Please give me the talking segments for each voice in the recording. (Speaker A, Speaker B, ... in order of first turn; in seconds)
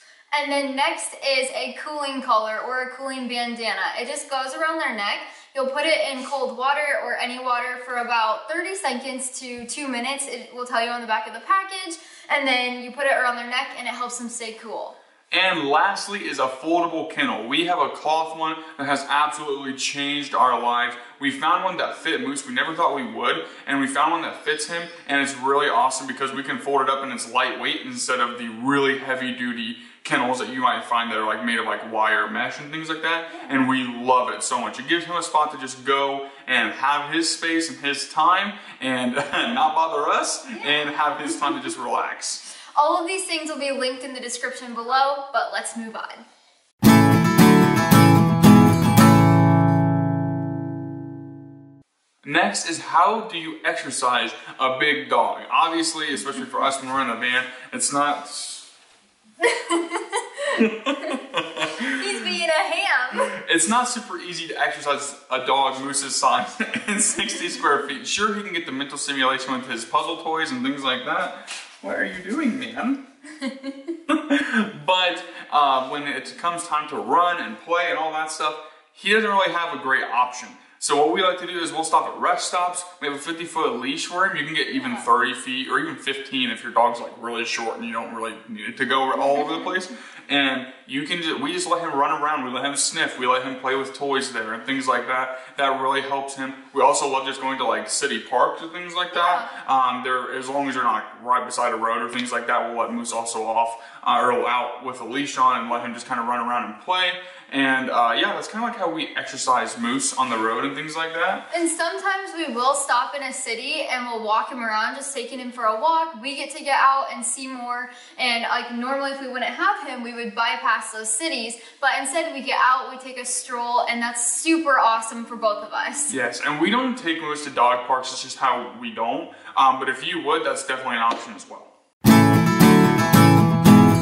Speaker A: 0.3-15.0, 40.5-41.3, 42.8-46.2, 59.4-61.2, 61.9-63.3, 73.4-73.9, 89.2-89.7, 99.1-99.5, 111.5-126.1
Speaker B: 15.3-42.4, 52.2-58.7, 60.6-62.3, 63.3-73.0, 74.1-111.5, 126.1-131.7